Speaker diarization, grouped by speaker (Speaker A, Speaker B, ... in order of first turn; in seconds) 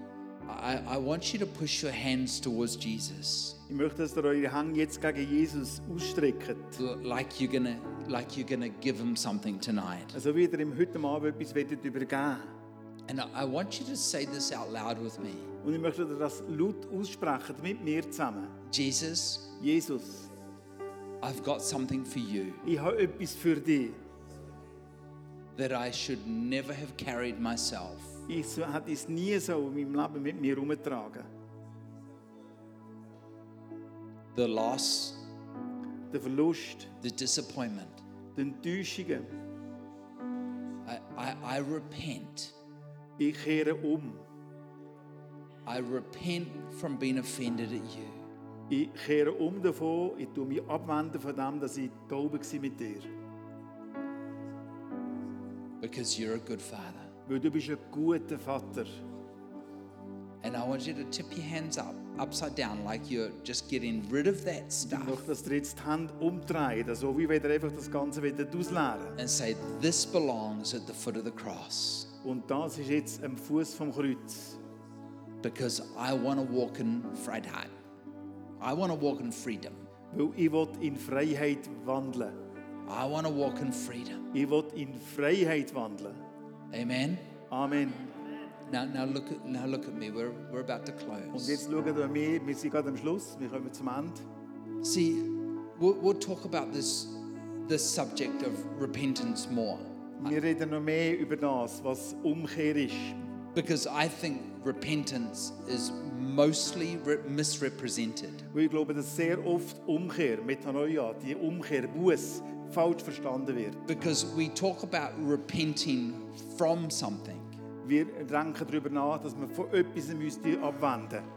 Speaker A: 0.5-3.6, 6.8-10.2, 13.1-15.5, 18.7-19.5, 21.2-22.6, 25.5-28.2, 34.3-35.2, 37.0-38.0, 40.8-42.5, 45.6-48.3, 55.8-57.1, 60.4-65.2, 69.2-72.1, 75.4-77.7, 78.6-79.9, 82.8-84.3, 86.7-87.2, 88.7-91.6, 94.8-100.1, 103.5-108.5, 113.8-117.5
Speaker B: 3.7-6.8, 10.1-12.5, 15.6-18.6, 19.6-20.3, 22.6-24.0, 28.3-31.3, 36.1-36.9, 38.3-39.3, 43.2-44.2, 48.7-53.1, 57.2-58.9, 64.8-69.2, 72.2-74.6, 80.1-82.4, 84.3-86.2, 87.5-88.1, 91.3-94.2, 100.2-103.2, 108.5-113.8, 117.8-121.2